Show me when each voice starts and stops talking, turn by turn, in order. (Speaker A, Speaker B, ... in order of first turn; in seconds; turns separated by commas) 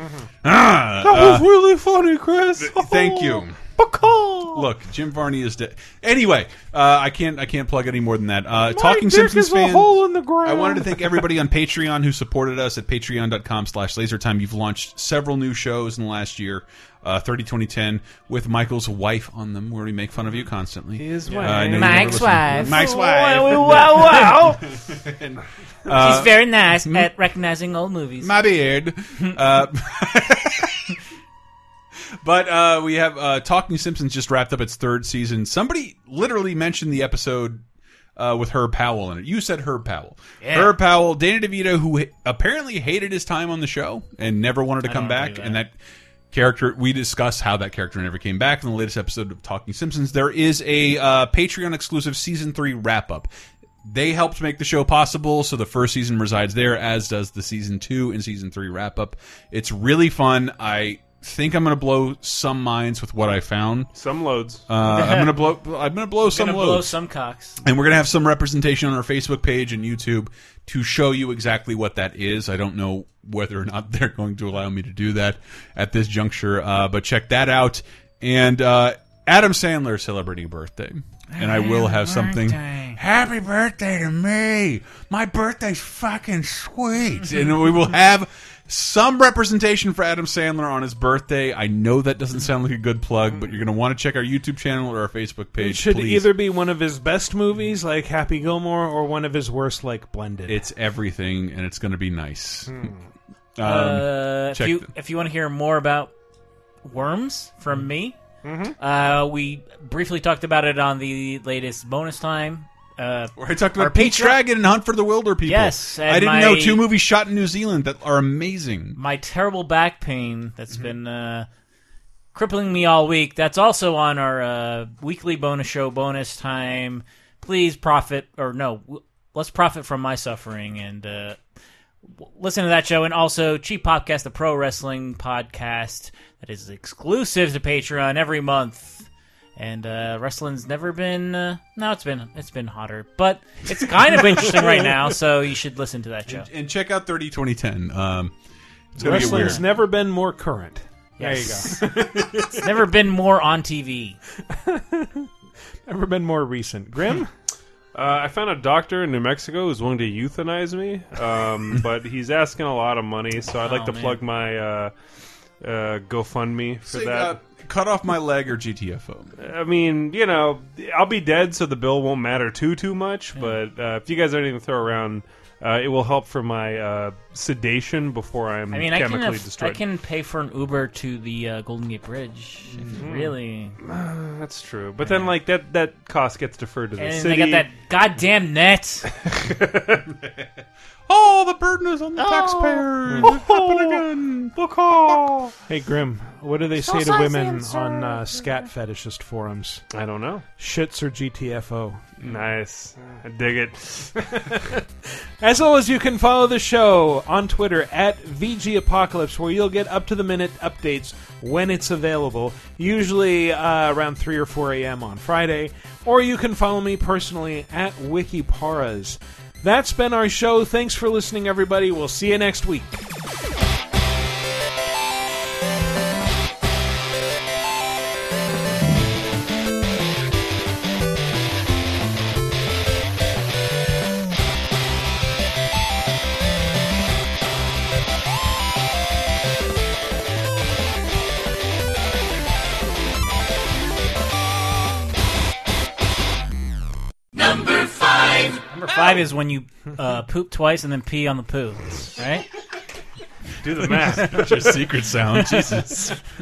Speaker A: 0.4-1.5, Speaker B: 1.0-4.6, Speaker A: 2.6-3.6, Speaker A: 4.5-27.1, Speaker C: 8.6-11.2, Speaker D: 21.0-22.2, Speaker C: 21.3-21.9, Speaker E: 21.6-24.7, Speaker E: 25.9-28.4, Speaker A: 28.2-30.9, Speaker A: 32.2-37.6, Speaker A: 38.2-45.7, Speaker E: 40.4-40.7, Speaker E: 44.8-45.6, Speaker A: 46.3-53.3, Speaker A: 53.8-63.9, Speaker D: 63.9-64.6, Speaker A: 64.7-66.9, Speaker E: 64.8-65.3, Speaker E: 66.2-67.6, Speaker A: 67.6-96.3, Speaker E: 81.3-83.0, Speaker C: 95.6-100.6, Speaker A: 100.5-102.8, Speaker C: 102.7-103.0, Speaker A: 103.6-104.9, Speaker E: 103.6-106.1, Speaker E: 106.8-108.2, Speaker C: 108.4-108.7, Speaker E: 108.8-114.4, Speaker A: 113.3-119.0, Speaker E: 115.4-116.9, Speaker E: 119.0-121.5, Speaker E: 122.3-131.4, Speaker E: 132.2-146.5, Speaker A: 146.3-148.3, Speaker A: 148.9-149.6, Speaker C: 149.0-152.6, Speaker E: 149.0-149.6, Speaker E: 151.2-151.9, Speaker E: 152.5-154.2, Speaker C: 154.5-155.3, Speaker C: 155.8-157.3, Speaker D: 157.9-164.9, Speaker E: 163.5-164.2, Speaker D: 165.6-167.3, Speaker A: 166.9-169.3, Speaker D: 169.4-179.8, Speaker E: 178.7-183.8, Speaker A: 182.7-183.0, Speaker D: 183.0-187.6, Speaker E: 185.0-185.3, Speaker E: 187.0-189.1, Speaker D: 189.3-190.0, Speaker A: 191.1-195.2, Speaker E: 192.2-192.9, Speaker D: 194.6-195.4, Speaker C: 195.7-199.9, Speaker E: 196.8-198.7, Speaker D: 199.9-200.4, Speaker C: 200.6-202.0, Speaker D: 202.2-204.6, Speaker C: 205.4-223.0, Speaker E: 247.4-248.0, Speaker E: 248.7-252.4, Speaker D: 253.6-254.6, Speaker A: 254.0-256.1, Speaker E: 255.4-256.1